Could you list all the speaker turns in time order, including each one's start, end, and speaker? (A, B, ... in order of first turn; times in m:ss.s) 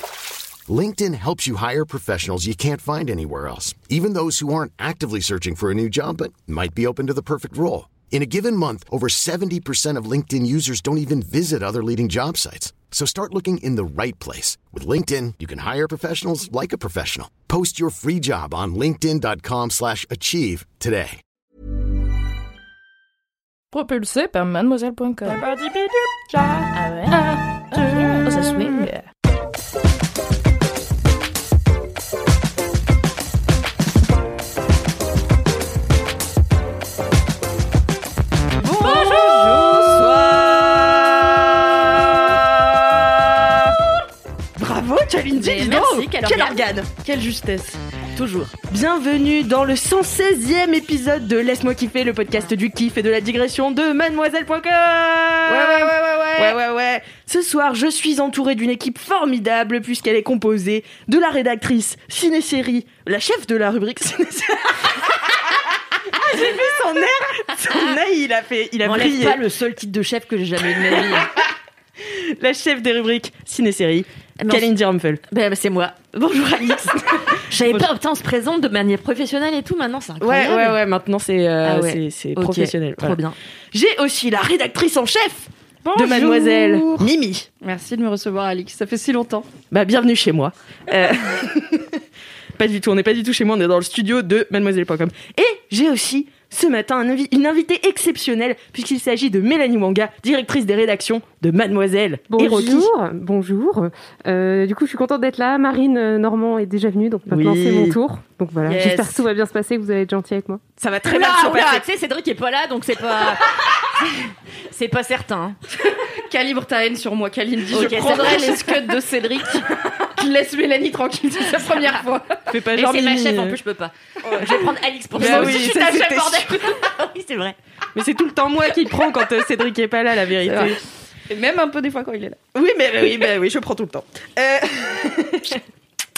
0:00.7-0:21.2 A
0:23.7-0:25.4 B
0:25.3-0:26.7 C
0:26.7-0:29.1 B
0:27.9-0:28.2 C
0:38.7-0:42.3 D
0:38.8-0:43.8 E
0:44.6-0:47.0 E
0:45.3-0:46.6 D
0:47.0-0:47.8 C
0:48.2-0:48.5 D
0:48.7-1:05.3 E
0:55.5-0:56.6 D
1:06.1-1:09.4 E
1:08.8-1:11.3 D
1:12.0-1:15.2 E
1:14.4-1:14.7 D
1:15.3-1:20.8 D
1:20.2-1:23.2 E
1:21.6-1:23.4 D
1:23.7-1:27.5 E
1:25.8-1:27.1 C
1:27.6-1:29.5 C
1:29.7-1:32.0 E
1:32.6-1:42.9 E
1:42.3-1:50.6 F
1:47.3-1:48.0 E
1:48.7-1:49.0 D
1:50.8-1:51.8 E
1:51.0-1:55.6 D
1:55.8-2:02.5 C
1:57.7-1:59.1 D
2:02.5-2:03.6 E
2:02.7-2:07.6 D
2:04.2-2:05.8 C
2:05.1-2:06.5 E
2:08.0-2:10.8 E
2:10.5-2:10.8 C
2:11.3-2:12.4 C
2:12.5-2:15.6 E